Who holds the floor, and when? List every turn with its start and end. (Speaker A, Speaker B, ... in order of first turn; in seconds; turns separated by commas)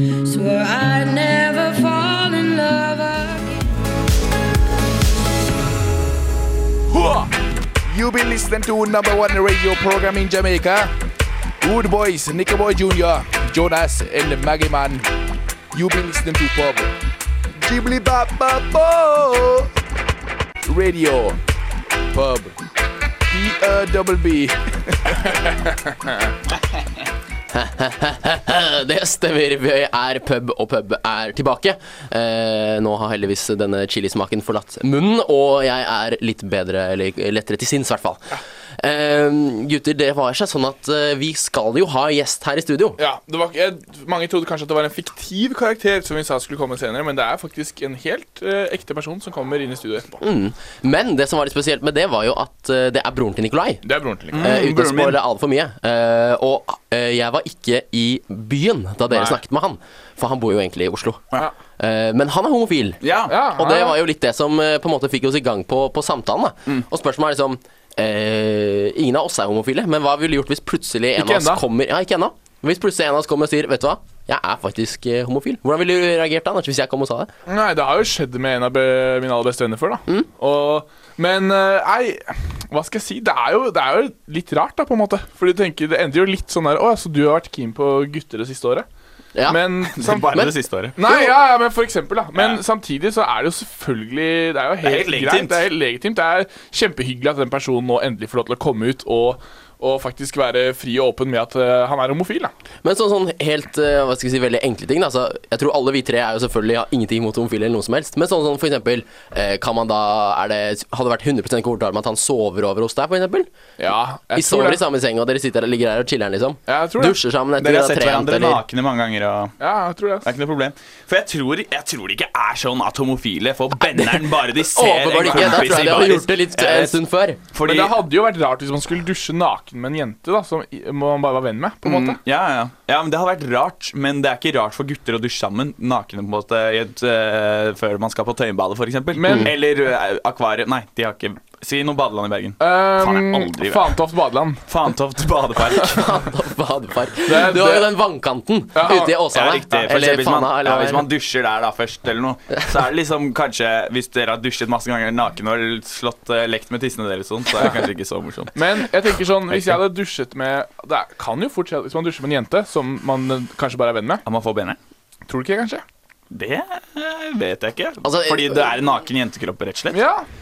Speaker A: 0.2-3.7, Speaker B: 6.9-7.3, Speaker B: 7.9-10.9, Speaker B: 11.6-15.1, Speaker B: 15.7-16.9, Speaker B: 17.6-19.7, Speaker B: 20.6-21.4, Speaker B: 22.1-22.6, Speaker B: 23.3-26.3, Speaker C: 27.5-38.2, Speaker C: 38.8-43.0, Speaker B: 43.0-50.2, Speaker C: 50.2-53.8, Speaker B: 53.9-54.6, Speaker D: 54.3-55.2, Speaker C: 54.4-61.2, Speaker B: 59.1-59.4, Speaker C: 61.8-77.3, Speaker D: 63.0-63.4, Speaker B: 63.3-64.0, Speaker B: 71.2-71.6, Speaker B: 77.5-88.9, Speaker C: 89.3-89.6, Speaker B: 89.5-90.4, Speaker D: 89.9-91.0, Speaker B: 91.0-102.5, Speaker D: 92.3-92.6, Speaker D: 94.8-95.7, Speaker C: 102.8-113.5, Speaker B: 113.8-114.8, Speaker C: 114.3-118.6, Speaker B: 116.7-117.2, Speaker D: 117.6-119.5, Speaker B: 119.6-120.3, Speaker D: 120.2-127.0, Speaker C: 123.8-127.4, Speaker D: 127.5-128.0, Speaker B: 127.7-132.2, Speaker D: 131.8-144.0, Speaker B: 139.2-139.5, Speaker B: 142.6-144.6, Speaker D: 144.7-146.0, Speaker C: 145.9-151.1, Speaker B: 147.3-148.0, Speaker B: 148.8-149.2, Speaker D: 149.3-158.6, Speaker B: 158.6-164.2, Speaker D: 159.5-159.8, Speaker D: 164.3-164.8, Speaker B: 165.3-165.8, Speaker D: 166.3-170.0, Speaker C: 168.0-168.7, Speaker B: 169.9-170.3